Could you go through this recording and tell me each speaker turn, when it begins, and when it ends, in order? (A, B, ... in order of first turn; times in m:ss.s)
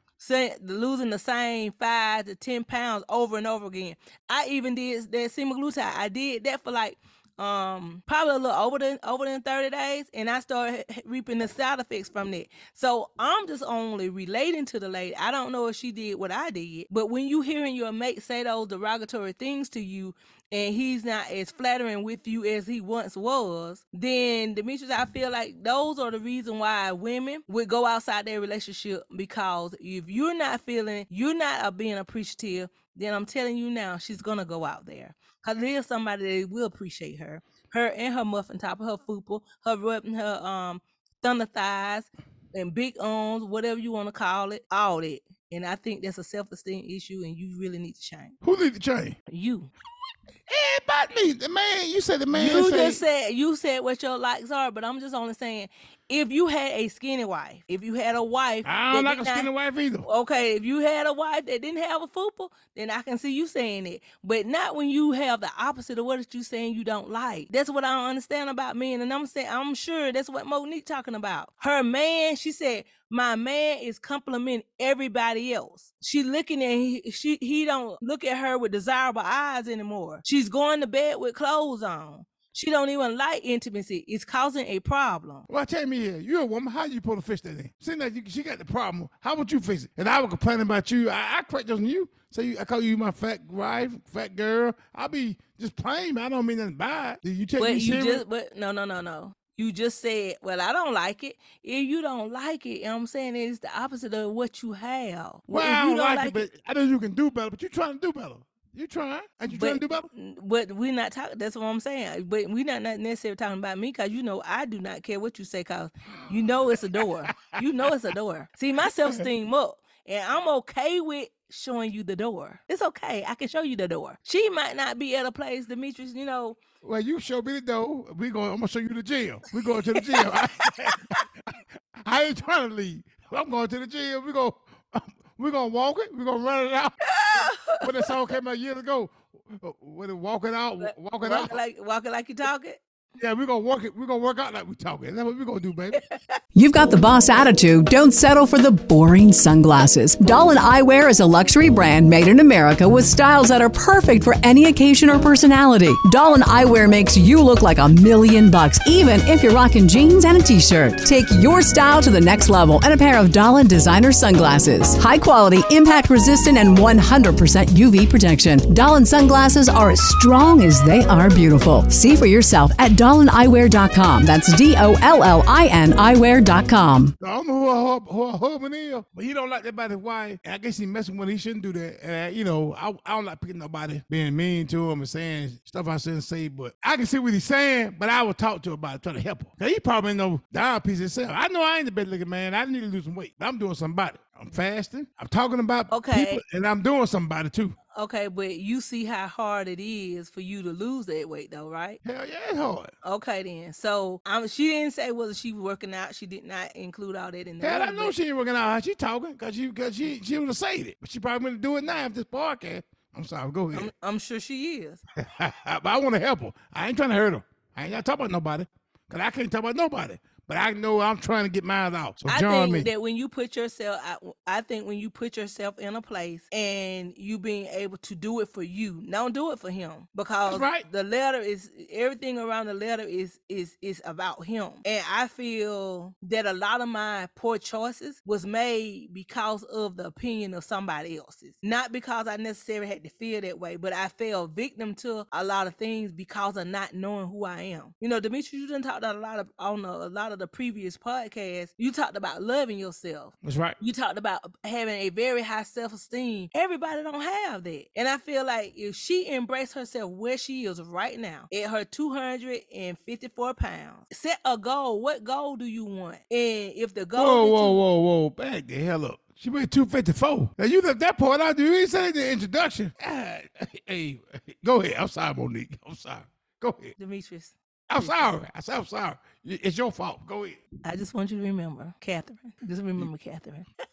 0:00.2-0:48.4 A
0:48.4-0:49.2 B
0:49.3-0:49.7 A
0:50.5-0:53.0 B
0:52.3-0:59.5 A
0:58.6-1:00.1 B
1:00.0-1:25.5 A
1:25.5-1:38.2 B
1:37.6-1:46.5 A
1:45.5-1:50.1 B
1:49.5-2:06.6 A
1:57.0-1:57.5 B
1:58.8-1:59.3 B
2:06.8-2:21.6 B
2:09.7-2:11.2 A
2:17.1-2:18.2 A
2:20.8-2:22.8 A
2:23.2-2:26.0 B
2:25.9-2:26.3 A
2:26.5-2:57.1 C
2:57.2-3:17.8 B
3:15.9-3:16.4 A
3:17.9-3:22.0 A
3:22.0-3:22.9 B
3:23.0-3:28.1 A
3:27.6-3:33.9 B
3:33.7-3:35.0 A
3:35.2-3:42.9 B
3:42.3-4:27.8 A
3:50.5-3:50.8 B
4:13.4-4:13.8 B
4:27.1-4:36.9 B
4:37.0-4:38.3 A
4:37.9-4:40.6 B
4:40.8-4:43.7 A